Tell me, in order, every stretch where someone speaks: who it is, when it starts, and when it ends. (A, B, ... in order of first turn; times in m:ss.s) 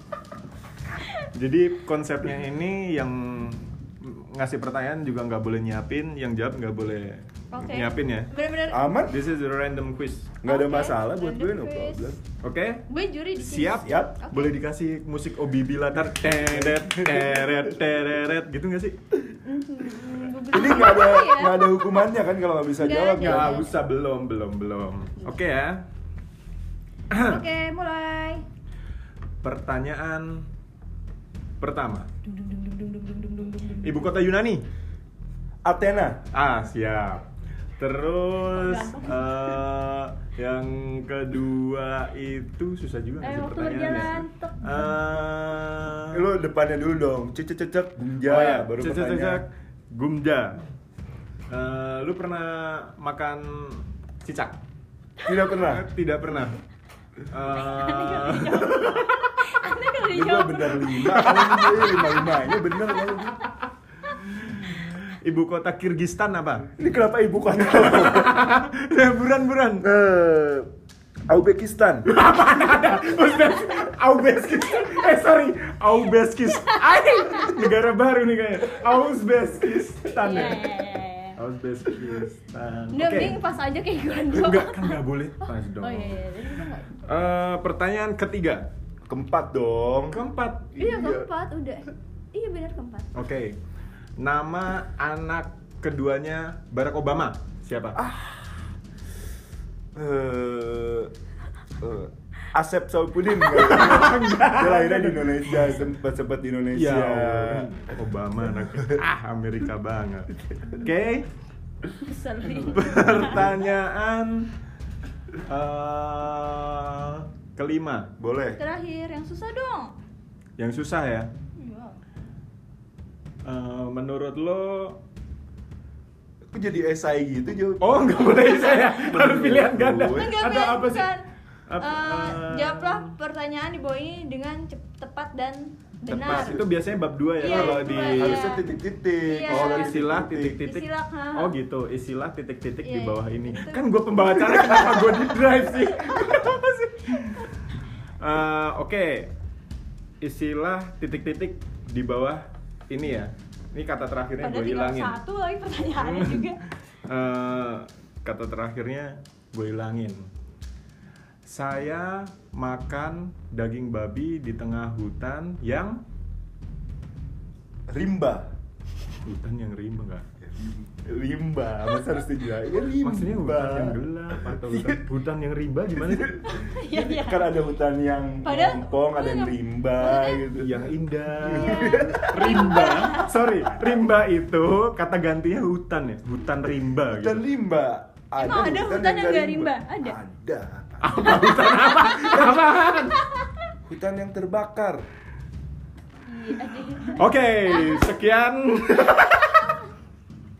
0:01.2-0:08.3 A
0:07.5-0:08.8 B
0:08.7-0:09.2 C
0:09.1-0:10.4 A
0:10.4-0:12.2 C
0:10.4-0:12.2 B
0:12.4-0:19.0 A
0:12.9-0:14.6 B
0:13.8-0:14.1 C
0:16.3-0:17.2 C
0:19.4-0:21.9 B
0:20.5-0:23.6 C
0:22.8-0:23.7 B
0:23.2-0:25.8 A
0:27.1-0:27.4 A
0:27.1-0:28.4 B
0:29.4-0:30.5 A
0:31.6-0:32.1 A
0:32.2-0:34.0 B
0:33.8-0:34.6 A
0:35.6-0:36.2 C
0:36.3-0:37.2 A
0:37.8-0:46.3 A
0:38.5-0:39.5 B
0:43.2-0:45.0 B
0:46.1-0:49.4 C
0:48.2-0:50.6 A
0:51.5-0:54.6 A
0:55.2-0:55.9 C
0:55.6-0:56.6 A
0:57.3-0:59.2 A
0:57.5-1:01.3 B
1:00.1-1:03.4 C
1:01.1-1:02.2 A
1:04.2-1:06.7 A
1:06.8-1:08.4 C
1:07.5-1:09.8 A
1:09.8-1:10.7 C
1:11.3-1:12.1 C
1:12.0-1:20.8 A
1:16.5-1:17.7 B
1:20.2-1:21.4 B
1:21.4-1:23.4 A
1:22.9-1:27.0 B
1:24.3-1:26.4 A
1:27.0-1:28.7 A
1:29.1-1:30.2 C
1:30.1-1:30.8 A
1:30.8-1:31.3 C
1:30.8-1:33.1 B
1:33.1-1:33.6 A
1:34.2-1:38.0 A
1:37.9-1:38.4 C
1:39.9-1:41.1 C
1:41.8-1:47.7 C
1:43.5-1:45.8 A
1:46.7-1:51.3 A
1:52.0-1:53.5 B
1:52.6-1:54.5 A
1:55.4-1:58.1 A
1:58.2-1:58.6 C
1:58.6-1:59.9 B
2:00.6-2:01.3 A
2:01.6-2:02.0 B
2:03.4-2:05.0 A
2:06.5-2:10.3 C
2:07.8-2:13.1 A
2:10.1-2:11.2 B
2:11.8-2:16.6 B
2:16.1-2:18.6 A
2:16.1-2:16.6 C
2:17.4-2:18.6 B
2:17.4-2:20.6 C
2:19.2-2:20.0 B
2:19.5-2:27.5 A
2:20.6-2:21.5 B
2:22.8-2:23.8 B
2:24.5-2:25.0 B
2:28.2-2:29.3 A
2:30.2-2:35.2 A
2:34.4-2:36.6 B
2:36.0-2:36.5 A
2:37.1-2:40.3 A
2:41.4-2:46.0 A
2:47.9-2:48.5 C
2:49.2-2:50.2 A
2:50.4-2:55.0 C
2:53.0-2:56.4 A
2:56.1-3:00.9 C
2:56.4-2:57.5 B
2:58.4-3:00.4 B
3:00.5-3:07.4 A
3:01.4-3:02.6 C
3:01.4-3:03.3 B
3:06.9-3:11.7 C
3:08.4-3:10.2 B
3:11.0-3:13.2 A
3:11.3-3:13.7 B
3:13.8-3:15.0 C
3:16.3-3:18.1 B
3:17.2-3:19.7 A
3:19.5-3:19.7 B